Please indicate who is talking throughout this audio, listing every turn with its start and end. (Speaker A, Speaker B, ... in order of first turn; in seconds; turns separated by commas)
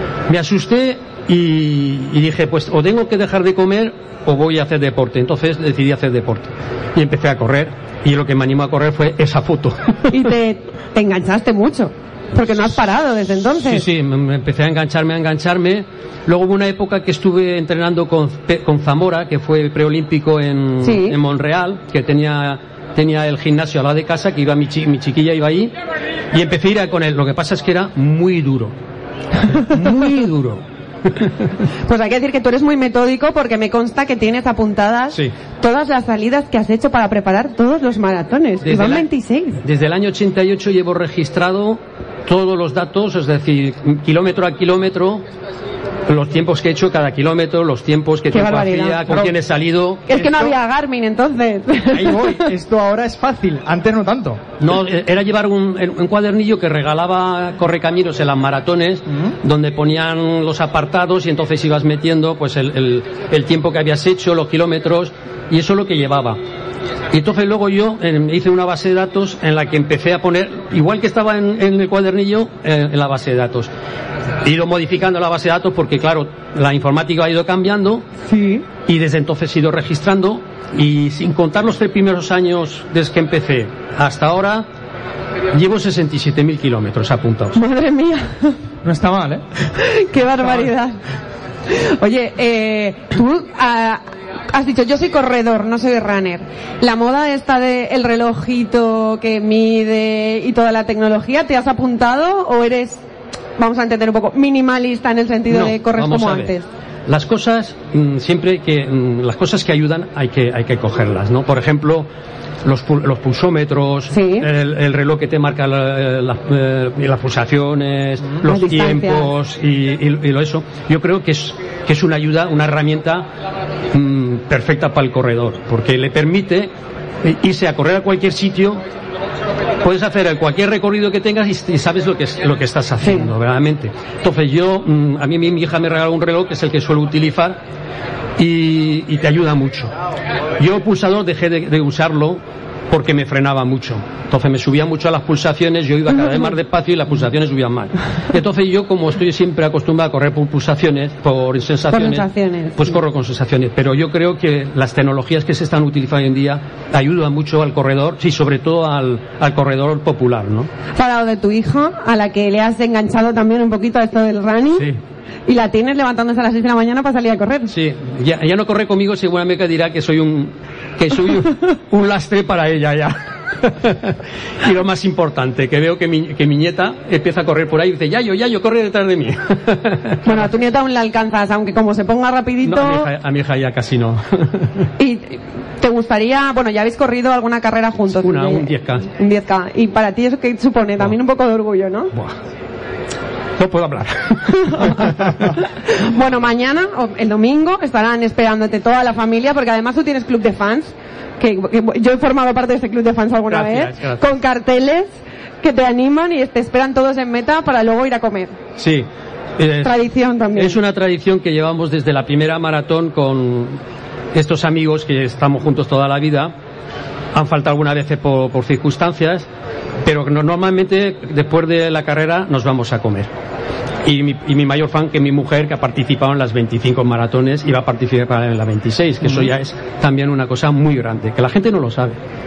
Speaker A: 0.3-10.1, Speaker B: 10.1-13.8, Speaker A: 13.5-25.7, Speaker B: 20.8-21.2, Speaker A: 26.3-28.7, Speaker A: 29.4-31.5, Speaker B: 31.8-39.6, Speaker A: 38.6-39.0, Speaker A: 39.6-45.2, Speaker A: 46.1-50.5, Speaker B: 48.3-49.1, Speaker C: 49.0-49.3, Speaker B: 50.1-52.4, Speaker C: 51.9-54.4, Speaker A: 54.6-66.4, Speaker A: 67.1-73.7, Speaker A: 74.4-78.0, Speaker B: 78.3-78.6, Speaker A: 78.9-84.6, Speaker A: 85.5-87.6, Speaker B: 87.5-88.6, Speaker C: 88.8-89.4, Speaker B: 89.7-91.0, Speaker B: 91.7-94.0, Speaker B: 94.5-103.0, Speaker B: 103.6-106.7, Speaker A: 105.5-106.5, Speaker A: 107.1-112.1, Speaker A: 112.6-123.3, Speaker B: 114.1-114.5, Speaker B: 118.4-119.3, Speaker A: 123.9-126.7, Speaker A: 127.2-128.8, Speaker A: 129.8-137.6, Speaker B: 133.0-133.3, Speaker A: 138.4-139.9, Speaker A: 140.6-160.7, Speaker B: 151.9-153.0, Speaker B: 160.9-164.9, Speaker B: 165.4-167.7, Speaker A: 167.7-180.5, Speaker B: 180.2-183.1, Speaker A: 182.6-184.9, Speaker B: 185.0-192.1, Speaker A: 188.1-189.1, Speaker A: 193.6-195.6, Speaker B: 194.6-208.6, Speaker A: 203.5-204.3, Speaker A: 208.8-209.1, Speaker A: 209.6-210.0, Speaker B: 209.8-210.8, Speaker A: 210.5-213.8, Speaker A: 214.3-216.5, Speaker A: 217.3-219.5, Speaker A: 220.0-223.3, Speaker A: 224.0-232.2